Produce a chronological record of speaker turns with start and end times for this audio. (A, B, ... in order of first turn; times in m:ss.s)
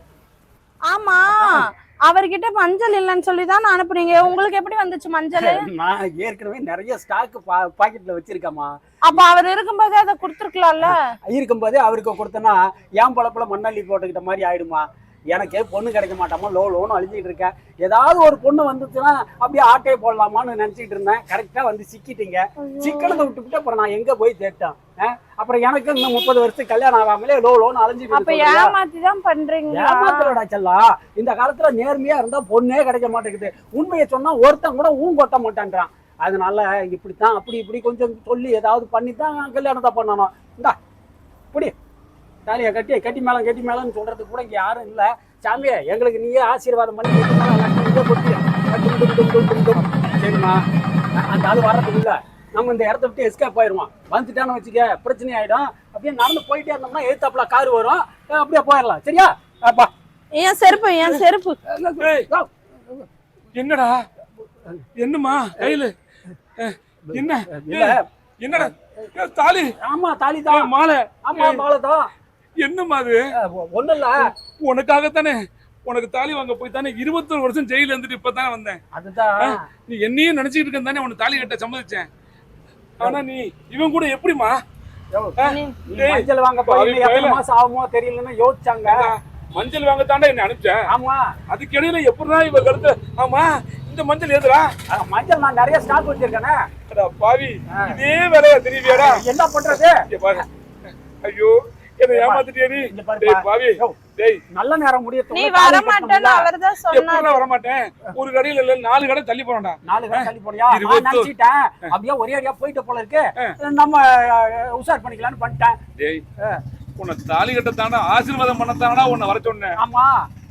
0:00.9-0:05.6 A
0:01.4-0:01.6 B
0:05.4-0:09.2 B
0:09.1-0:11.0 A
0:10.8-0:28.7 B
0:22.6-0:23.3 A
0:28.1-0:30.4 A
0:29.7-0:40.7 B
0:42.4-0:50.6 B
0:51.2-0:59.9 B
1:00.3-1:01.6 A
1:01.7-1:03.0 B
1:02.0-1:02.3 C
1:03.5-1:04.0 C
1:05.0-1:05.9 C
1:06.6-1:09.7 C
1:07.1-1:08.0 B
1:09.8-1:10.7 B
1:10.5-1:11.6 C
1:11.2-1:12.1 B
1:12.6-1:13.2 C
1:13.4-1:14.2 B
1:14.6-1:18.8 C
1:18.9-1:19.6 B
1:19.4-1:22.1 C
1:23.0-1:24.6 C
1:25.4-1:27.4 C
1:25.4-1:25.8 A
1:25.9-1:29.1 B
1:28.8-1:30.8 C
1:30.9-1:31.2 B
1:31.5-1:34.7 C
1:34.9-1:36.6 B
1:36.9-1:40.4 C
1:38.8-1:40.0 B
1:41.2-1:44.4 C
1:42.1-1:44.0 B
1:44.5-1:46.5 B
1:45.3-1:47.4 A
1:46.9-1:51.3 C
1:49.8-1:55.8 B
1:56.0-1:56.2 C
1:57.0-1:59.7 C
1:59.8-2:00.2 B